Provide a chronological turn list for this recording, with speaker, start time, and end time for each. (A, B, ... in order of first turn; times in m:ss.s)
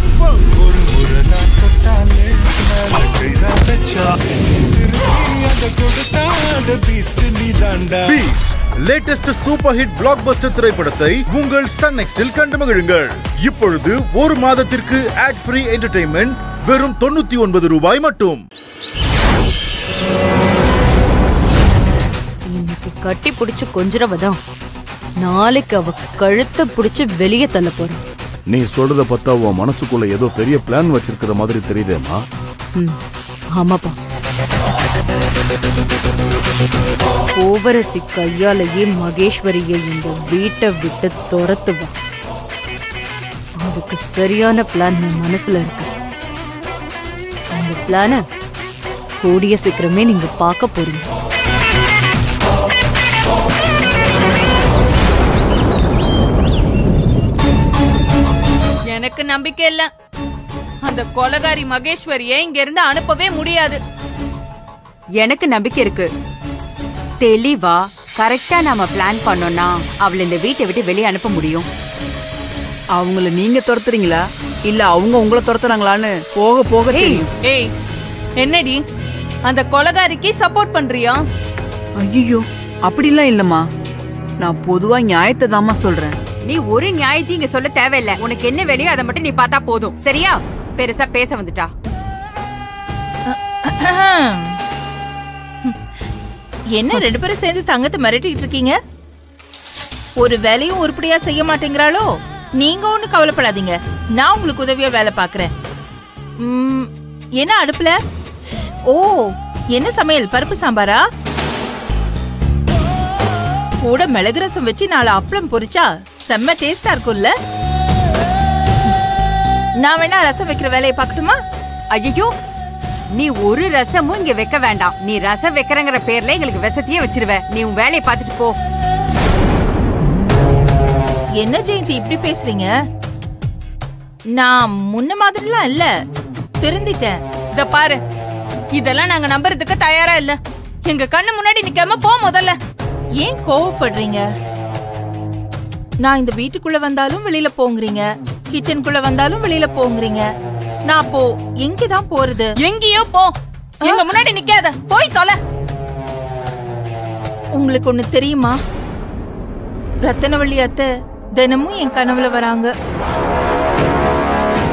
0:00.4-0:04.2 A
0:04.7-0:08.2 A
0:08.1-0:18.4 B
0:22.6-0:24.4 C
0:25.2-0:28.0 C
0:28.5-0:32.2 D
0:33.6-0:34.0 C
0:37.4-0:41.9 C
0:43.6-0:45.9 C
0:47.6-0:48.2 C
0:49.2-0:51.1 C
0:58.9-0:59.9 E
1:00.9-1:03.8 E
1:05.2-1:06.1 F
1:07.2-1:11.7 F
1:13.0-1:17.3 G
1:18.4-1:18.8 E
1:19.5-1:21.2 E
1:22.0-1:23.7 G
1:24.4-1:26.2 G
1:26.5-1:31.7 F
1:33.3-1:34.6 H
1:36.8-1:38.8 H
1:40.2-1:42.1 H
1:42.6-1:45.5 H
1:46.4-1:46.9 H
1:47.4-1:48.0 H
1:48.9-1:51.0 H
1:53.8-1:57.3 H
1:59.8-2:01.4 H
2:01.9-2:02.3 F
2:03.2-2:08.5 F
2:11.4-2:12.7 H
2:14.4-2:15.9 H
2:16.6-2:17.2 H
2:17.6-2:18.0 E
2:18.8-2:22.6 E
2:23.2-2:24.2 H
2:26.0-2:30.2 H
2:30.9-2:32.5 H
2:32.6-2:33.3 E
2:33.8-2:34.1 H
2:33.8-2:35.4 E
2:37.6-2:38.6 H
2:40.0-2:40.9 H
2:41.4-2:42.7 H